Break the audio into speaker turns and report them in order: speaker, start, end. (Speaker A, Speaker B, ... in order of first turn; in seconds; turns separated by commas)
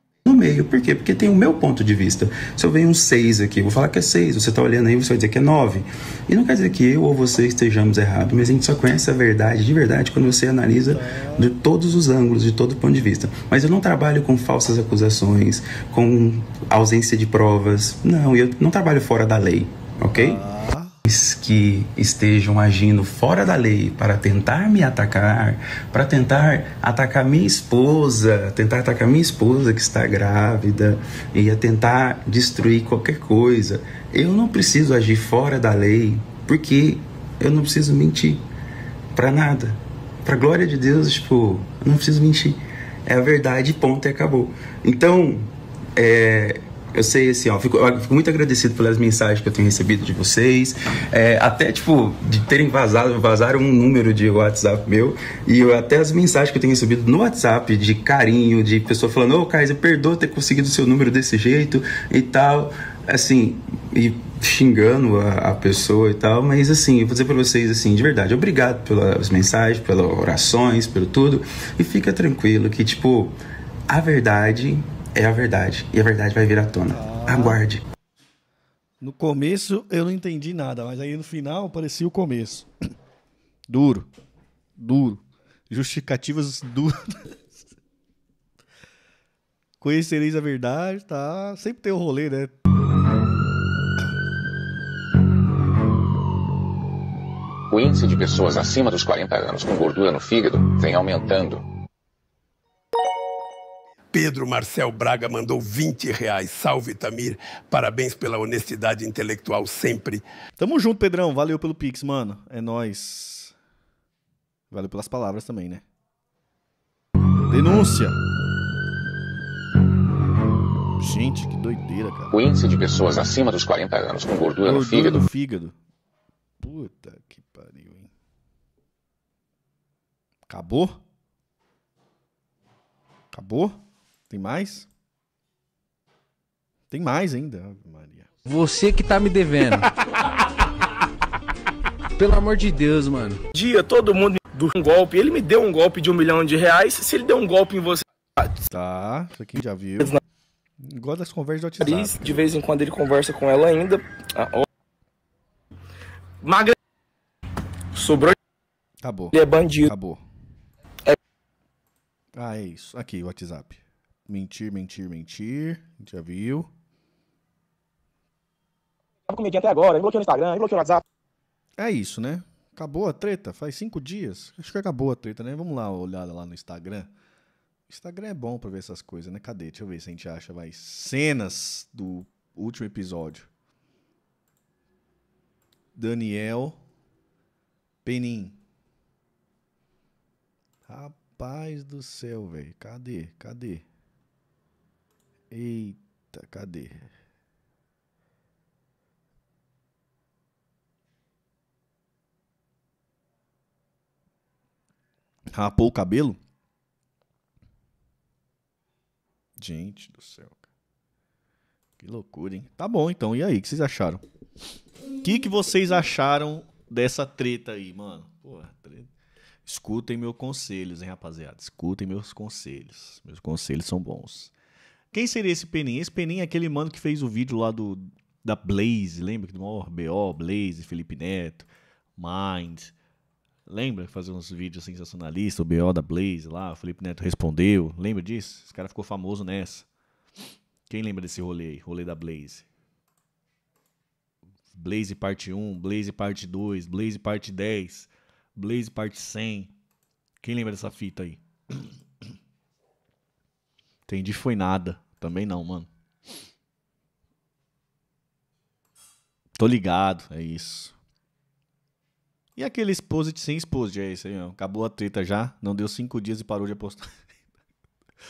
Speaker A: 0.2-20.4, Speaker B: 10.9-11.5, Speaker B: 20.1-20.9, Speaker A: 21.1-38.4, Speaker A: 39.1-45.4, Speaker A: 46.0-73.4, Speaker A: 73.9-77.8, Speaker B: 76.9-77.6, Speaker B: 79.0-82.7, Speaker B: 83.7-84.1, Speaker B: 84.8-87.7, Speaker B: 89.8-92.6, Speaker C: 97.7-101.7, Speaker D: 104.1-110.2, Speaker B: 110.6-113.5, Speaker B: 114.7-115.8, Speaker B: 117.4-118.2, Speaker B: 121.0-122.3, Speaker C: 122.3-125.3, Speaker B: 124.7-125.8, Speaker B: 126.6-128.1, Speaker B: 130.5-131.0, Speaker B: 133.3-134.9, Speaker B: 136.9-138.3, Speaker E: 138.4-139.9, Speaker E: 142.2-143.4, Speaker F: 143.5-148.1, Speaker B: 148.7-150.2, Speaker B: 150.8-152.3, Speaker F: 151.8-154.7, Speaker F: 156.4-156.8, Speaker F: 157.9-158.4, Speaker B: 159.0-160.2, Speaker F: 159.3-159.9, Speaker B: 162.3-166.7, Speaker F: 169.3-171.0, Speaker B: 171.8-177.1, Speaker B: 177.9-183.5, Speaker B: 185.9-186.8, Speaker B: 188.1-188.6, Speaker B: 190.9-193.9, Speaker B: 195.5-197.1, Speaker B: 205.5-206.4, Speaker B: 209.6-210.7, Speaker B: 212.0-214.2, Speaker B: 215.2-219.1, Speaker B: 219.7-224.5, Speaker B: 225.1-232.9, Speaker B: 233.7-239.9, Speaker B: 240.9-242.7, Speaker B: 244.7-249.7, Speaker B: 250.4-251.9, Speaker B: 254.1-255.9, Speaker B: 259.6-260.9, Speaker B: 262.6-267.3